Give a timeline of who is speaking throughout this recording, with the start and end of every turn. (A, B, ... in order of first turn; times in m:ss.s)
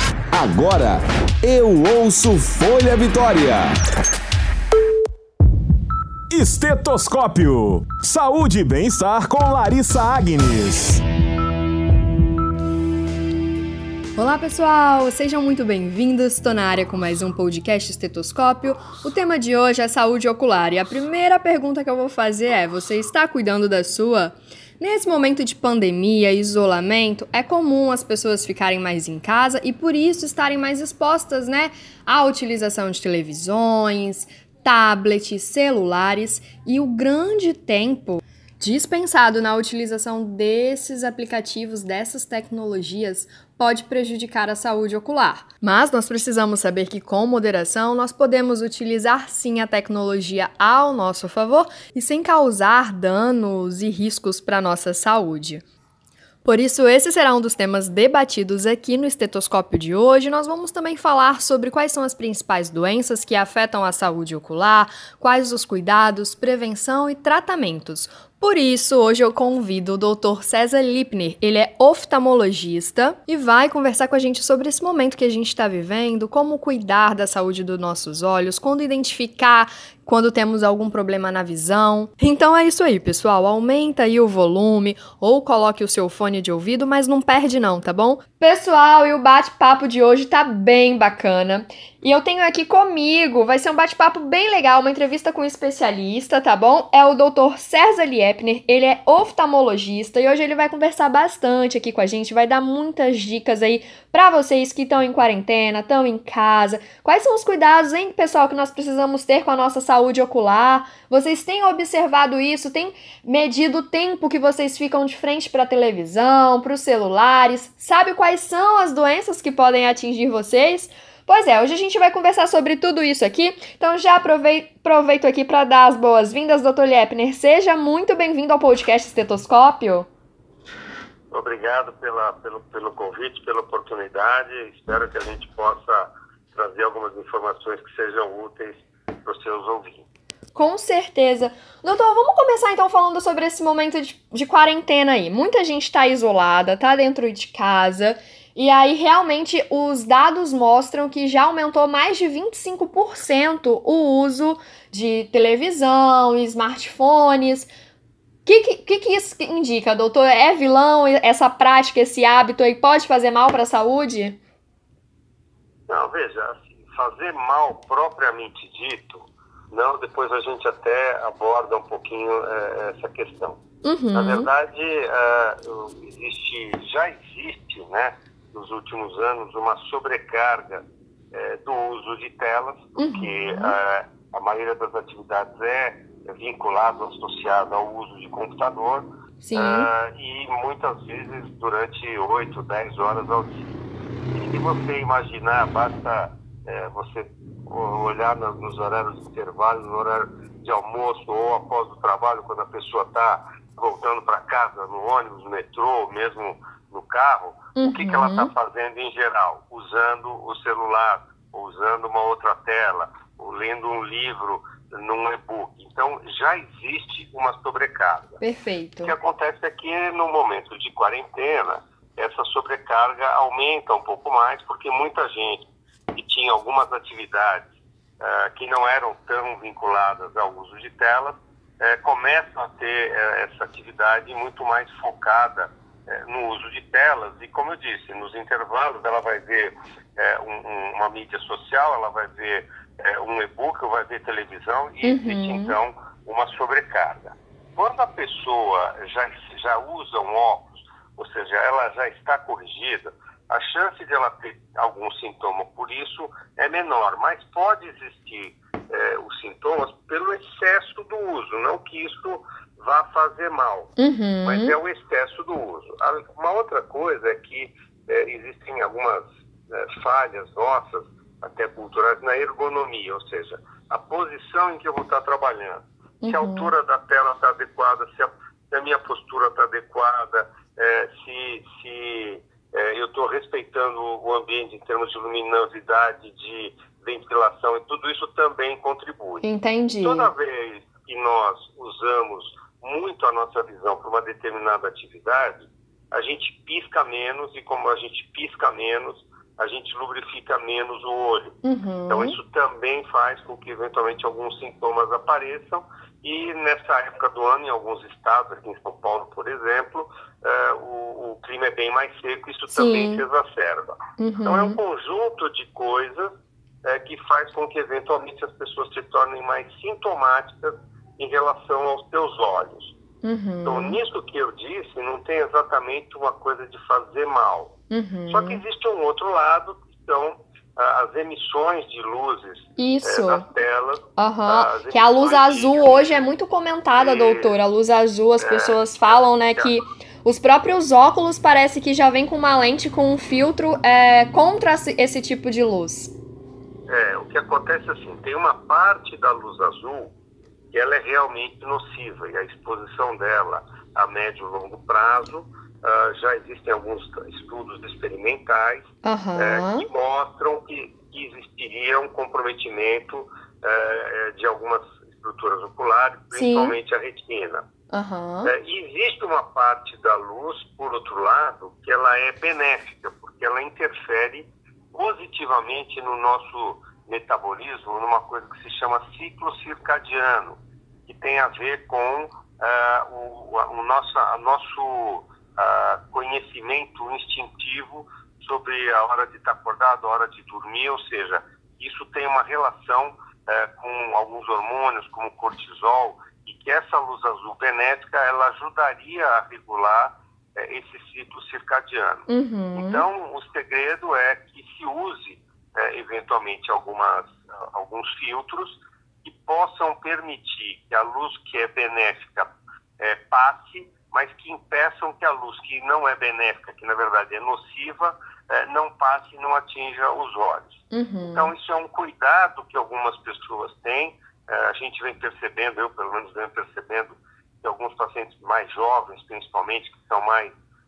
0:00.3-0:03.7 A
0:06.3-0:11.0 A
0:14.2-0:55.6 B
0:56.4-2:10.1 B
2:11.3-2:20.0 C
2:20.5-2:37.7 B
2:38.4-2:44.4 B
2:45.9-2:53.6 C
2:53.8-2:54.5 B
2:54.1-3:13.7 C
3:03.0-3:03.8 B
3:09.4-3:09.9 B
3:14.3-3:38.4 C
3:27.8-3:28.5 B
3:38.4-3:39.1 B
3:39.0-3:47.7 C
3:48.2-4:23.9 C
4:05.0-4:05.8 B
4:24.0-4:24.8 B
4:24.4-4:49.4 C
4:36.2-4:36.7 B
4:49.4-4:50.3 B
4:50.0-5:01.6 C
5:01.6-5:02.4 B
5:02.1-5:22.9 C
5:12.7-5:13.2 B
5:14.2-5:14.8 B
5:23.2-5:24.0 B
5:23.6-5:27.8 C
5:27.9-5:28.6 B
5:28.3-5:36.4 C
5:32.8-5:33.5 B
5:34.2-5:46.1 B
5:37.0-5:37.5 C
5:38.4-5:39.8 C
5:46.9-5:50.1 C
5:50.7-6:07.6 C
5:59.0-5:59.9 B
6:06.3-6:06.7 B
6:07.9-6:08.5 B
6:08.4-7:10.5 C
6:42.3-6:43.0 B
7:00.9-7:01.5 B